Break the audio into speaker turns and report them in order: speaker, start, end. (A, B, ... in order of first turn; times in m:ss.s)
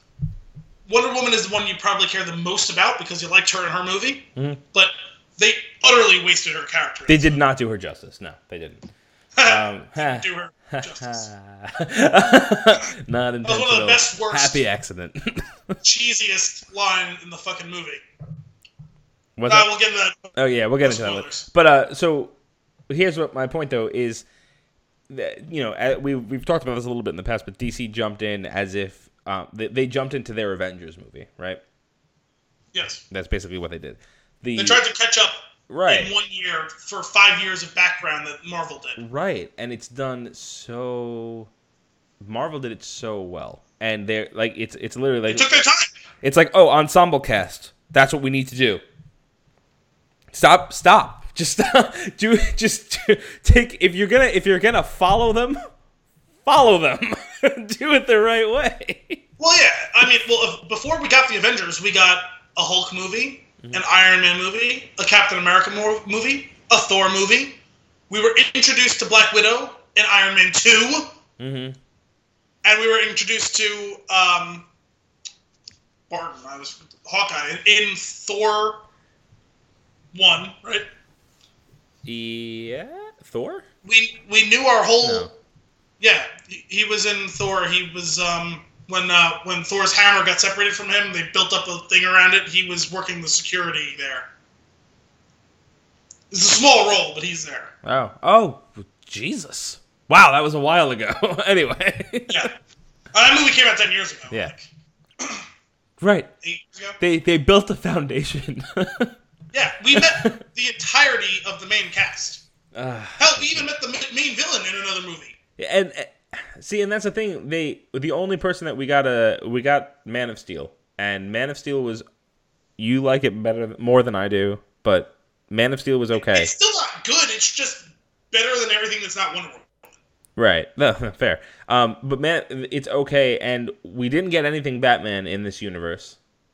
0:00.9-0:07.4 A
0:04.4-0:04.6 B
0:07.1-0:08.9 B
0:09.4-0:11.3 A
0:09.4-0:15.8 B
0:13.4-0:14.6 A
0:15.8-0:18.0 A
0:19.4-0:19.7 B
0:19.5-0:21.5 A
0:20.3-0:22.3 B
0:22.9-0:24.2 B
0:25.1-0:31.6 B
0:32.7-0:33.0 A
0:33.1-0:34.8 B
0:34.5-0:35.3 A
0:35.7-0:36.1 B
0:35.8-0:39.0 A
0:39.0-0:41.5 B
0:42.2-0:45.6 B
0:45.3-0:45.9 A
0:46.2-0:48.8 B
0:50.3-0:55.6 B
0:56.4-0:59.2 B
0:59.4-1:07.6 A
1:08.1-1:11.1 A
1:11.4-1:11.8 B
1:12.6-1:14.7 A
1:16.1-1:18.8 A
1:20.1-1:20.8 A
1:22.0-1:23.6 B
1:23.8-1:25.3 A
1:25.0-1:25.3 B
1:26.0-1:34.3 A
1:36.3-1:37.7 A
1:37.8-1:42.5 B
1:43.1-1:44.7 A
1:45.2-1:45.4 A
1:46.0-1:46.3 B
1:46.4-1:47.0 A
1:47.0-1:49.1 B
1:49.5-1:52.4 A
1:49.9-1:50.3 B
1:52.7-1:53.6 B
1:53.2-1:55.4 A
1:55.6-2:02.0 B
2:02.8-2:06.5 B
2:06.2-2:09.9 A
2:10.4-2:16.2 B